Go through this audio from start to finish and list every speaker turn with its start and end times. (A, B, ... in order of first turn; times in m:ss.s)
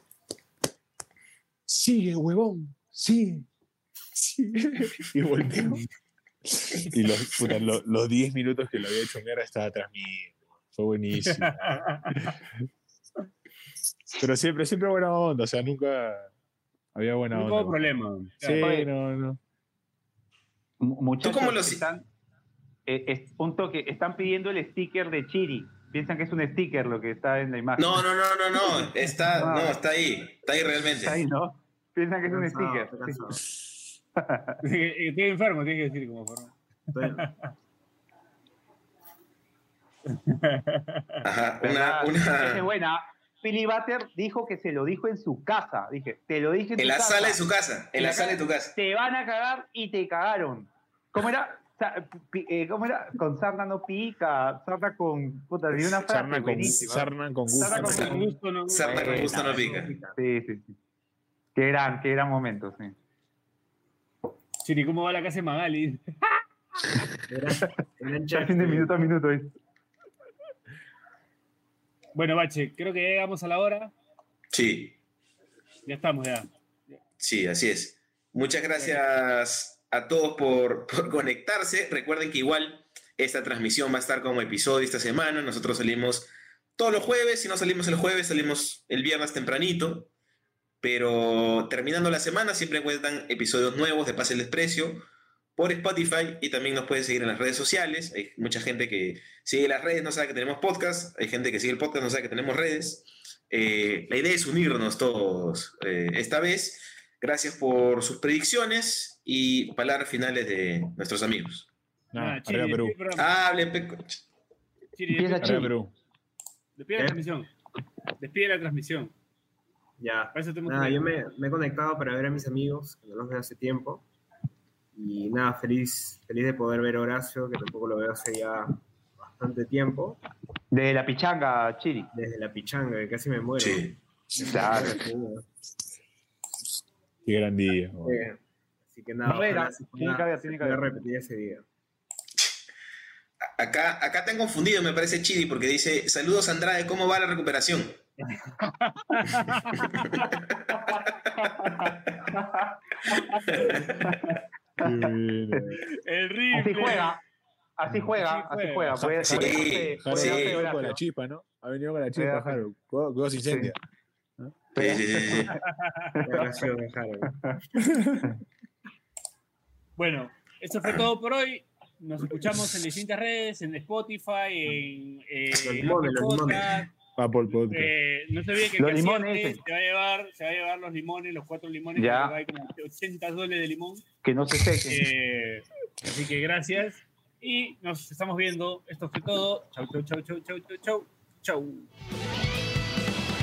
0:01.7-0:03.5 A
0:04.1-0:05.8 A
0:06.4-0:12.4 A
0:11.2-0:12.3 B
0:14.2-0:16.3 A
0:16.9-0:19.4 A
0:17.3-0:18.6 B
0:18.6-0:18.9 C
0:20.8-0:22.0 C
0:21.2-0:21.8 D
0:22.9-0:29.8 C
0:27.8-0:31.2 D
0:31.0-0:33.2 C
0:32.3-0:33.4 E
0:34.2-0:34.6 C
0:34.6-0:37.5 B
0:36.9-0:37.2 E
0:40.1-0:41.2 B
0:41.2-0:42.7 D
0:41.6-0:47.4 C
0:46.8-0:48.7 D
0:47.9-0:58.3 C
0:55.7-0:58.0 A
0:57.6-1:00.0 B
0:57.8-0:59.9 D
0:58.8-1:00.7 C
1:01.5-1:02.9 C
1:04.6-1:06.2 B
1:07.3-1:08.9 E
1:08.3-1:09.5 C
1:12.1-1:13.9 B
1:14.5-1:15.0 D
1:15.8-1:17.0 B
1:17.2-1:30.1 D
1:18.8-1:19.0 B
1:30.8-1:35.0 D
1:35.6-1:51.7 D
1:52.1-1:53.0 A
1:52.1-1:53.3 B
1:53.2-1:54.2 D
1:54.9-1:55.7 B
1:55.1-1:55.7 C
1:55.4-1:55.9 A
1:56.8-1:57.5 B
1:57.0-1:57.2 E
1:58.2-1:59.1 B
2:00.0-2:04.0 E
2:00.3-2:01.1 B
2:04.9-2:10.2 E
2:10.7-2:12.1 C
2:12.1-2:15.4 E
2:13.6-2:14.0 D
2:14.4-2:14.9 C
2:17.2-2:18.2 A
2:18.0-2:21.6 E
2:19.2-2:21.0 C
2:23.6-2:28.0 D
2:28.8-2:29.8 B
2:29.8-2:30.3 D
2:30.7-2:33.5 C
2:33.5-2:33.8 D
2:34.0-2:34.3 C
2:34.8-2:35.8 A
2:34.8-2:35.6 C
2:36.0-2:37.2 B
2:36.5-2:37.2 C
2:37.8-2:41.0 C
2:38.1-2:39.0 B
2:39.0-2:43.8 A
2:39.2-2:40.6 D
2:42.2-2:42.6 C
2:43.5-2:43.7 C
2:44.7-2:45.6 C
2:44.8-2:45.6 D
2:45.8-2:46.1 B
2:46.2-2:47.3 E
2:47.8-2:48.3 A
2:50.0-2:56.9 B
2:55.5-2:56.9 E
2:57.2-2:57.9 A
2:57.5-3:04.0 B
2:58.8-2:59.6 C
3:02.0-3:02.4 C
3:04.2-3:05.1 C
3:04.9-3:11.9 B